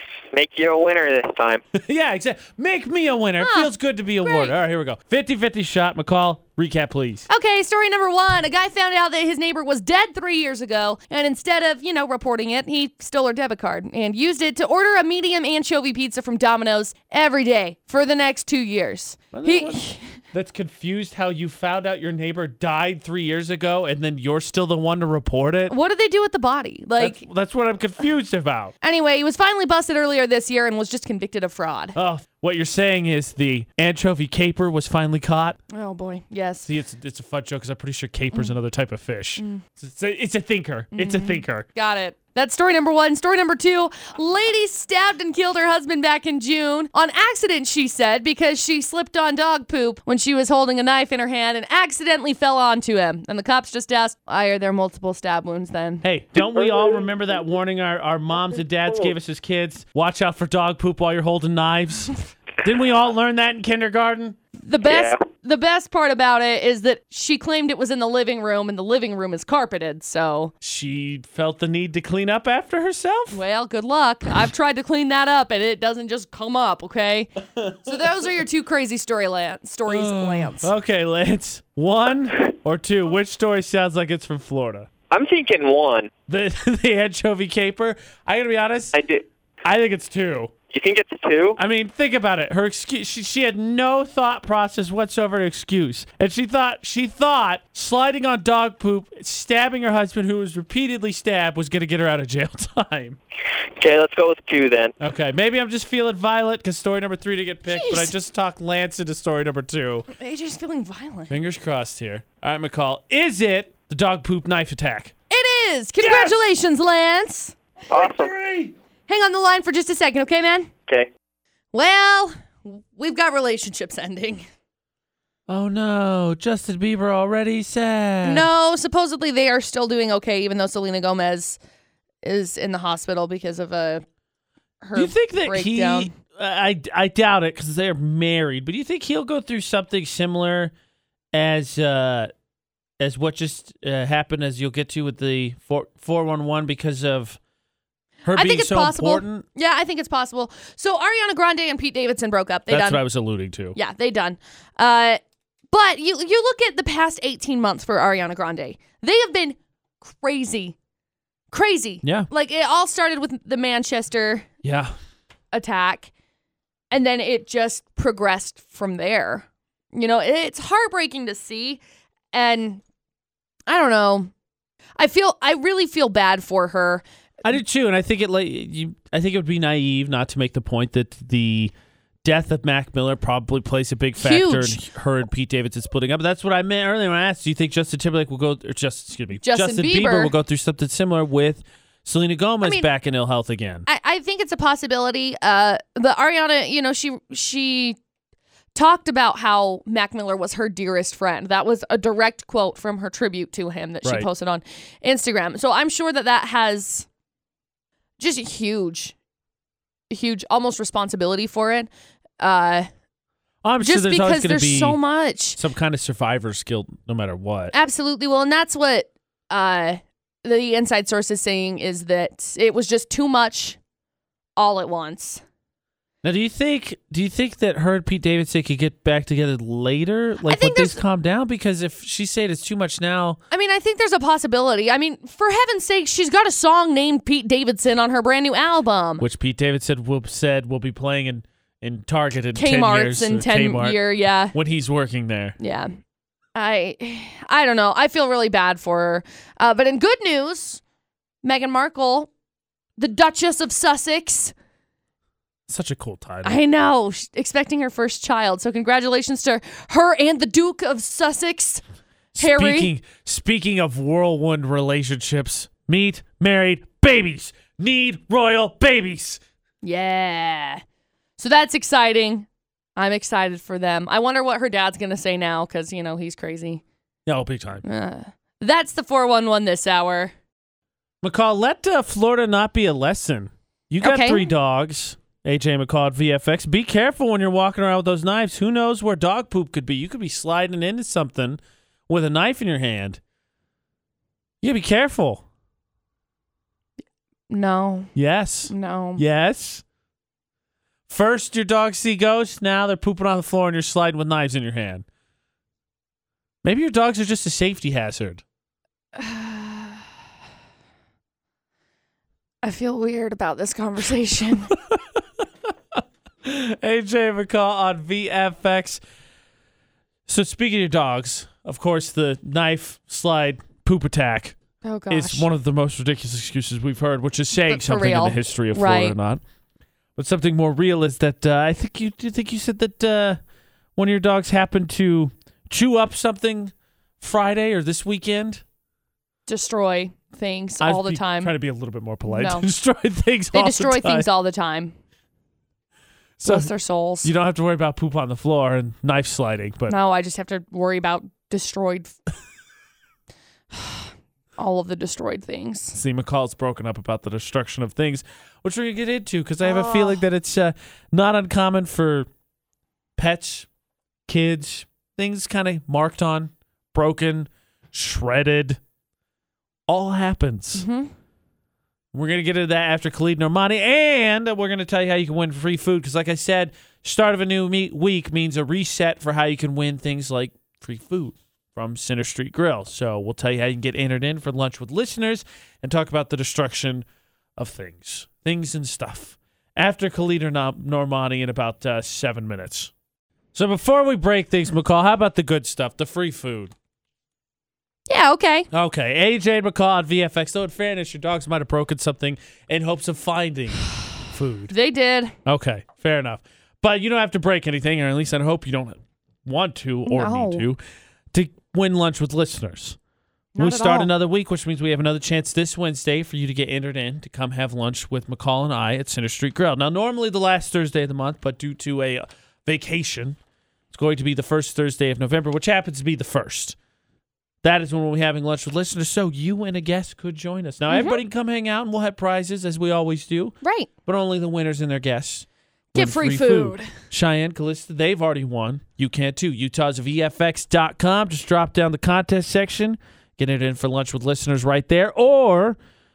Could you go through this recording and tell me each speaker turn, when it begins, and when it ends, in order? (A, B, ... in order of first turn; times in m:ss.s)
0:00.3-0:01.6 A
0:01.7-0:07.3 B
0:03.4-0:03.7 C
0:04.2-0:04.5 C
0:07.3-0:20.0 C
0:19.3-0:25.7 B
0:25.7-0:27.2 C
0:27.0-0:28.7 B
0:28.8-0:32.0 C
0:32.0-0:35.6 B
0:35.7-0:36.7 C
0:36.6-0:41.6 B
0:39.4-0:39.6 C
0:40.9-0:56.0 C
0:56.0-1:04.4 B
1:04.6-1:10.5 C
1:04.8-1:05.2 A
1:10.6-1:13.4 B
1:13.3-1:17.3 C
1:17.6-1:17.9 B
1:17.8-1:20.7 C
1:19.9-1:24.9 B
1:25.1-1:26.1 A
1:26.3-1:29.0 B
1:28.9-1:29.2 A
1:29.6-1:30.5 B
1:30.7-1:31.6 A
1:31.6-1:43.2 B
1:43.8-1:45.0 A
1:45.0-1:50.1 B
1:47.7-1:48.1 C
1:50.1-1:51.3 C
1:51.3-1:55.1 B
1:55.3-1:57.6 C
1:56.0-1:56.4 B
1:57.9-1:58.7 B
1:57.9-1:58.3 A
1:59.1-2:00.7 C
2:01.7-2:04.5 C
2:05.5-2:08.5 B
2:08.2-2:11.6 C
2:12.2-2:14.0 C
2:14.8-2:16.1 C
2:15.0-2:20.7 B
2:21.3-2:22.3 B
2:23.0-2:27.4 B
2:28.2-2:29.4 B
2:28.3-2:33.0 C
2:32.7-2:33.8 B
2:33.8-2:40.8 C
2:41.5-2:44.5 C
2:42.0-2:42.3 B
2:44.6-2:44.9 B
2:45.5-2:46.1 C
2:46.9-2:51.8 C
2:52.3-2:52.8 C
2:53.7-2:54.3 C
2:55.0-2:57.0 C
2:57.4-3:01.7 B
3:02.2-3:13.9 B
3:04.2-3:04.8 C
3:09.4-3:10.3 C
3:13.9-3:18.0 C
3:18.8-3:27.1 C
3:28.2-3:29.1 C
3:30.1-3:32.9 C
3:33.6-3:35.0 B
3:33.8-3:35.6 C
3:35.6-3:37.8 B
3:37.7-3:43.8 C
3:44.6-3:45.4 C
3:46.2-3:53.4 B
3:50.4-3:51.0 C
3:53.5-3:59.2 C
3:59.2-4:04.0 B
4:02.6-4:04.6 C
4:04.5-4:05.6 B
4:05.6-4:05.9 C
4:06.6-4:10.8 C
4:11.4-4:12.3 C
4:13.0-4:14.5 C
4:15.7-4:16.6 B
4:16.4-4:21.8 C
4:22.4-4:29.4 B
4:22.4-4:22.9 C
4:29.8-4:30.8 C
4:31.4-4:36.8 C
4:37.3-4:37.8 B
4:37.8-4:40.3 C
4:41.2-4:53.2 B
4:44.0-4:44.5 C
4:54.6-4:55.4 B
4:57.5-4:58.1 C
4:58.1-4:59.8 B
4:58.7-4:59.2 C
5:01.1-5:05.0 B
5:06.6-5:08.4 B
5:09.1-5:10.0 C
5:12.6-5:14.7 C
5:16.4-5:19.0 B
5:20.3-5:24.6 B
5:24.8-5:25.5 C
5:25.1-5:29.4 B
5:27.6-5:29.2 C
5:30.2-5:33.4 B
5:34.0-5:38.6 B
5:39.5-5:41.5 C
5:40.8-5:44.3 B
5:42.3-5:42.7 C
5:43.5-5:44.9 C
5:46.4-5:46.7 B
5:46.4-5:47.3 C
5:47.2-5:50.0 B
5:49.9-5:52.2 C
5:53.7-5:56.0 C
5:55.9-6:02.3 B
5:59.6-6:00.2 C
6:03.2-6:03.7 B
6:04.3-6:08.8 B
6:09.9-6:10.9 B
6:10.8-6:11.1 C
6:12.1-6:27.1 B
6:27.6-6:32.9 B
6:33.5-6:36.7 B
6:38.1-6:38.7 C
6:38.7-6:44.7 B
6:44.7-6:45.4 C
6:45.4-6:50.8 B
6:50.1-6:50.6 C
6:51.3-6:53.0 B
6:53.6-6:54.1 C
6:53.6-7:03.4 B
7:03.9-7:06.8 B
7:07.6-7:25.8 B
7:10.9-7:11.2 C
7:13.6-7:13.9 C
7:15.9-7:16.9 C